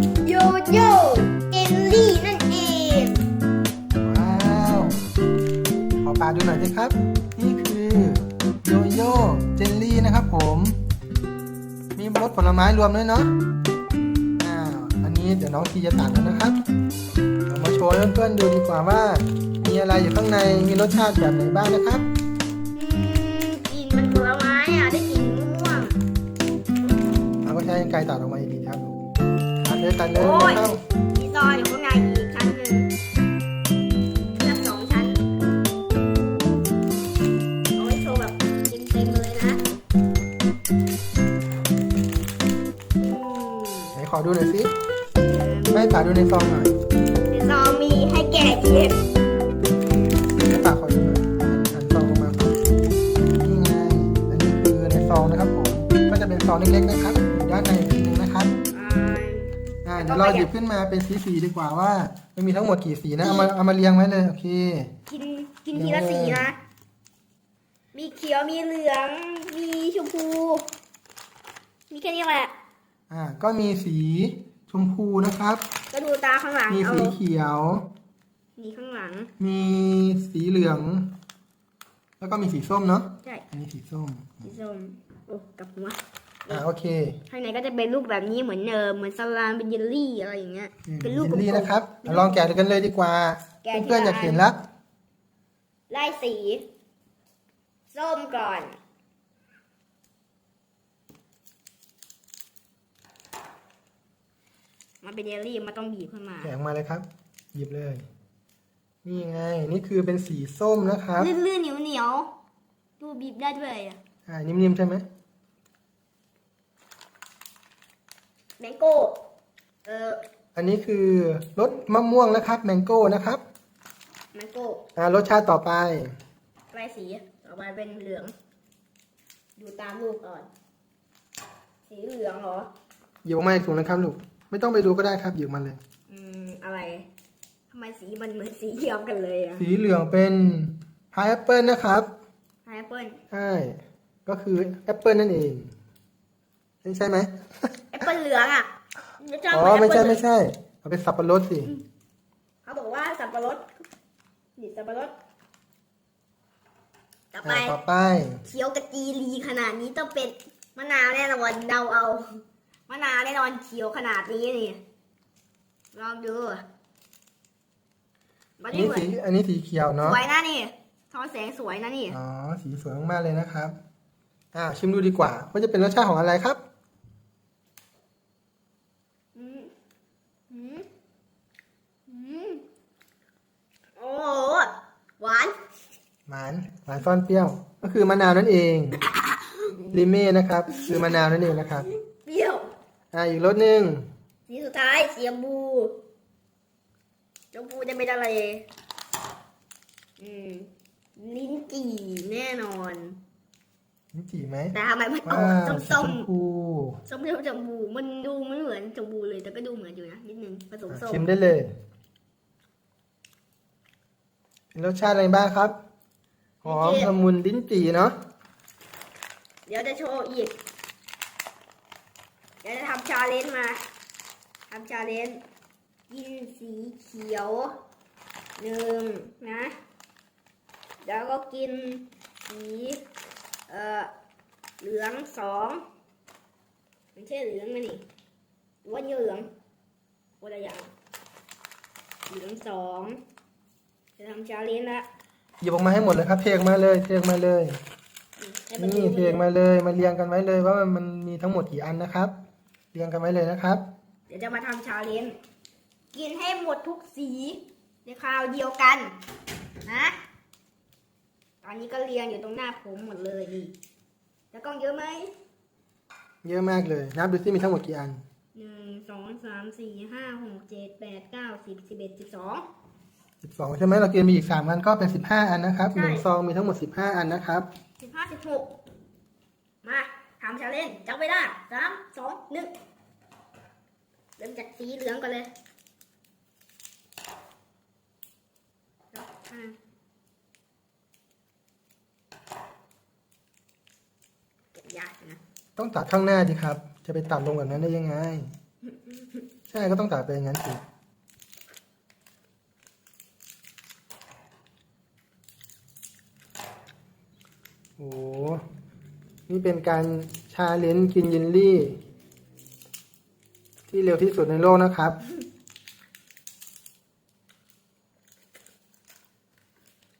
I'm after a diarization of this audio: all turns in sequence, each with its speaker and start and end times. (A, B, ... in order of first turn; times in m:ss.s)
0:00.2-0:03.2 A
0:04.0-0:05.0 B
0:06.0-0:10.8 B
0:12.0-0:13.3 B
0:14.4-0:16.6 B
0:17.5-0:22.1 B
0:22.7-0:26.0 A
0:27.4-0:29.0 B
0:29.6-0:30.8 B
0:30.1-0:30.6 A
0:31.1-0:32.9 A
0:34.3-0:35.2 A
0:37.8-0:39.6 A
0:43.0-0:43.9 A
0:43.9-0:44.7 B
0:45.2-0:45.9 A
0:45.7-0:46.7 B
0:47.3-0:49.0 A
0:50.4-0:52.6 B
0:53.2-0:58.5 B
0:58.7-1:00.5 A
0:59.8-1:04.9 B
1:03.2-1:03.5 A
1:05.1-1:06.6 A
1:05.7-1:06.5 B
1:07.9-1:10.7 A
1:11.9-1:12.5 A
1:13.1-1:15.6 B
1:15.9-1:17.2 A
1:16.7-1:17.8 B
1:18.6-1:19.3 A
1:19.4-1:21.1 B
1:22.2-1:24.4 B
1:24.4-1:26.6 A
1:26.5-1:27.2 B
1:27.3-1:32.4 A
1:30.8-1:34.6 B
1:33.6-1:34.5 A
1:35.9-1:36.6 A
1:37.9-1:38.8 A
1:45.0-1:46.5 A
1:46.4-1:48.0 B
1:49.0-1:51.3 B
1:51.2-1:52.3 A
1:53.0-1:54.0 A
1:54.3-1:55.0 B
1:58.6-1:59.2 A
1:59.8-2:00.2 A
2:00.5-2:03.4 B
2:04.3-2:04.8 A
2:05.0-2:06.1 B
2:06.7-2:08.3 A
2:09.6-2:10.5 A
2:11.8-2:12.7 A
2:13.2-2:15.8 B
2:16.1-2:17.1 A
2:17.7-2:19.6 A
2:19.6-2:22.1 B
2:22.6-2:23.2 A
2:23.3-2:25.7 B
2:26.8-2:28.0 B
2:27.9-2:28.7 A
2:29.2-2:30.2 A
2:29.5-2:31.7 B
2:32.6-2:33.7 A
2:34.6-2:35.1 A
2:37.3-2:37.8 A
2:37.4-2:38.4 B
2:38.4-2:44.8 A
2:45.9-2:46.6 A
2:48.6-2:49.1 A
2:48.7-2:50.2 B
2:50.0-2:52.2 A
2:52.1-2:53.8 B
2:54.5-2:56.6 B
2:59.3-2:59.7 A
3:00.5-3:00.8 A
3:02.1-3:02.6 A
3:04.0-3:05.6 A
3:06.3-3:09.0 B
3:09.6-3:10.1 A
3:09.9-3:11.9 B
3:10.7-3:11.0 A
3:12.1-3:12.7 A
3:13.1-3:14.1 B
3:14.5-3:15.9 A
3:17.5-3:18.6 A
3:20.2-3:23.2 A
3:24.1-3:27.0 B
3:24.7-3:26.3 A
3:27.1-3:31.2 A
3:30.9-3:31.7 B
3:34.7-3:35.7 B
3:36.6-3:38.2 B
3:36.6-3:37.1 A
3:39.7-3:40.6 A
3:42.6-3:43.8 A
3:44.7-3:45.4 A
3:46.1-3:47.8 A
3:48.6-3:49.8 A
3:51.0-3:53.0 A
3:53.7-3:54.1 A
3:54.8-3:55.8 A
3:57.1-3:58.0 A
3:58.8-3:59.5 A
4:00.4-4:00.9 A
4:02.3-4:03.2 A
4:04.2-4:05.1 A
4:05.6-4:07.8 B
4:08.4-4:09.4 A
4:08.8-4:12.3 B
4:12.9-4:13.8 B
4:14.3-4:15.4 A
4:16.1-4:19.2 A
4:19.8-4:20.2 A
4:21.6-4:23.7 A
4:24.5-4:25.3 A
4:26.4-4:28.2 B
4:28.5-4:32.6 A
4:33.4-4:37.7 B
4:35.9-4:36.2 A
4:38.0-4:38.7 A
4:39.8-4:42.7 A
4:44.4-4:45.5 A
4:49.1-4:49.8 A
4:54.8-4:55.4 A
4:55.8-4:58.5 B
4:59.7-5:00.8 B
5:08.0-5:08.6 B
5:09.5-5:12.0 B
5:13.9-5:15.2 B